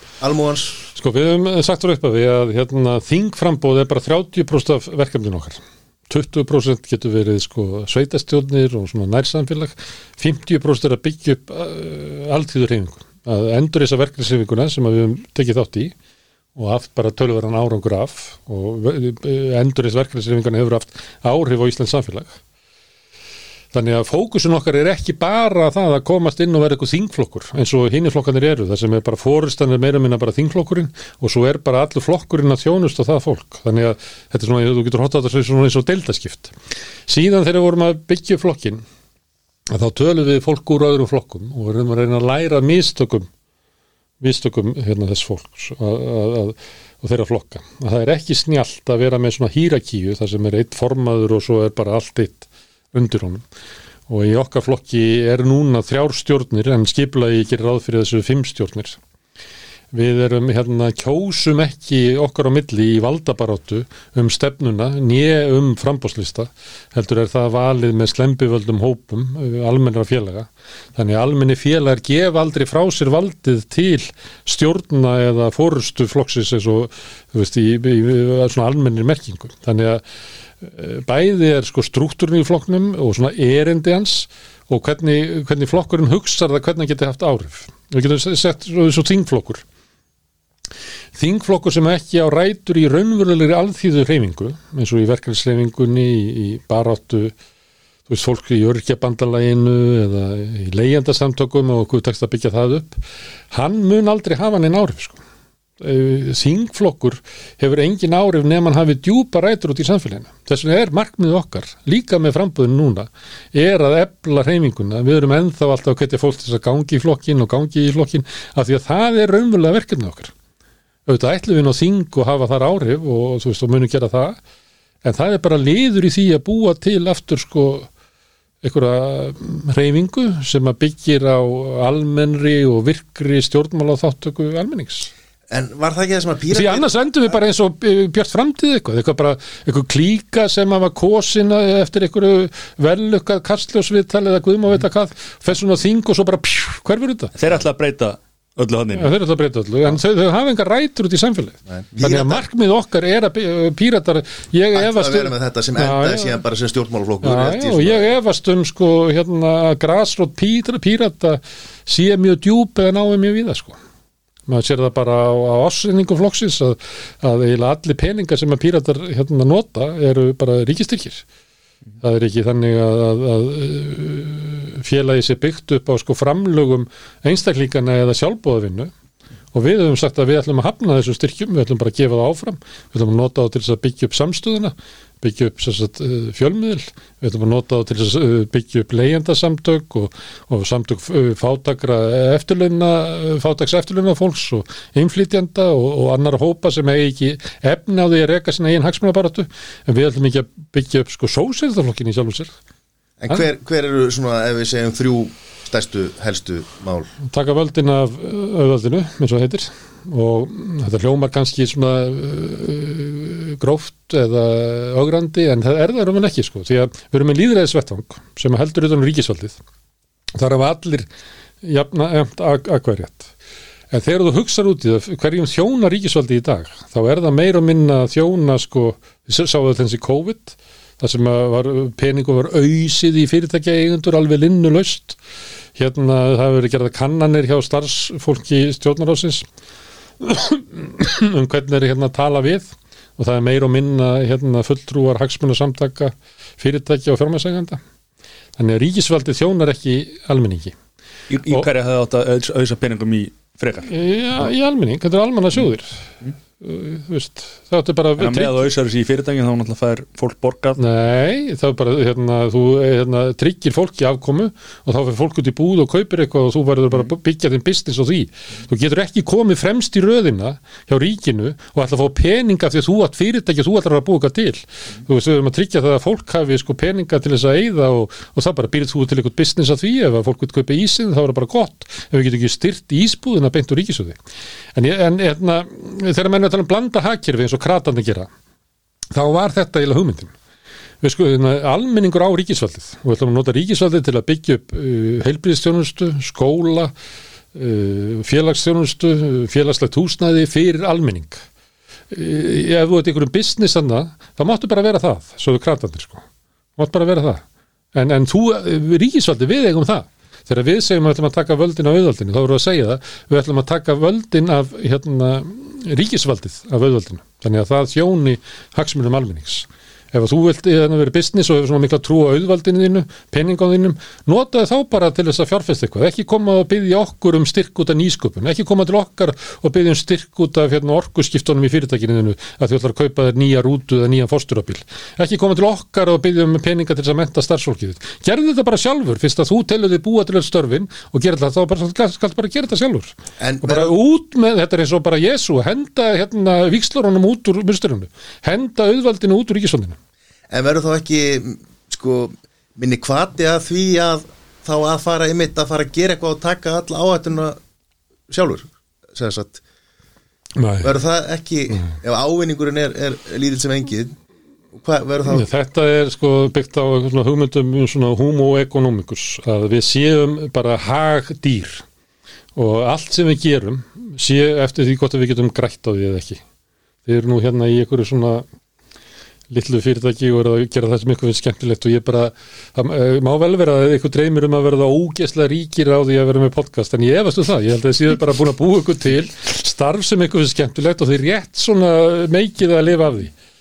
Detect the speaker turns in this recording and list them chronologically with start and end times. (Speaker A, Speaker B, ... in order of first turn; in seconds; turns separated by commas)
Speaker A: 0.2-0.8, Speaker B: 0.9-15.9, Speaker B: 16.5-22.4, Speaker B: 23.7-36.5, Speaker B: 37.1-38.8, Speaker B: 39.7-43.3, Speaker B: 44.2-53.4, Speaker B: 54.1-59.0, Speaker B: 59.9-80.0, Speaker B: 80.6-89.6, Speaker B: 91.1-97.3, Speaker B: 98.1-103.0, Speaker B: 103.5-105.2, Speaker B: 105.8-120.3, Speaker B: 121.0-124.4, Speaker B: 125.0-127.9, Speaker B: 128.6-135.1, Speaker A: 135.5-136.9, Speaker B: 136.5-147.3, Speaker C: 147.3-149.2, Speaker B: 148.9-156.4, Speaker A: 151.7-152.4, Speaker A: 154.7-158.1, Speaker B: 157.2-163.8, Speaker B: 164.5-171.2, Speaker B: 172.0-178.9, Speaker B: 179.5-202.5, Speaker A: 203.2-207.1, Speaker B: 207.2-219.6, Speaker B: 220.3-221.1, Speaker B: 221.6-223.3, Speaker B: 223.9-235.2, Speaker B: 235.8-239.4, Speaker B: 240.2-247.8, Speaker B: 248.6-250.7, Speaker C: 251.3-253.9, Speaker B: 253.8-256.1, Speaker B: 256.6-258.6, Speaker C: 258.2-260.8, Speaker B: 260.8-284.2, Speaker B: 284.7-288.3, Speaker B: 289.1-290.3, Speaker B: 291.0-296.9, Speaker B: 297.5-301.4, Speaker B: 302.1-306.2, Speaker B: 306.8-307.4, Speaker B: 307.9-349.9, Speaker A: 343.4-343.9, Speaker A: 350.5-357.6, Speaker A: 358.3-359.6, Speaker B: 360.6-360.9, Speaker A: 360.8-364.1, Speaker A: 364.7-365.4, Speaker B: 365.3-371.8, Speaker B: 372.5-376.4, Speaker B: 377.0-378.4, Speaker B: 379.5-393.3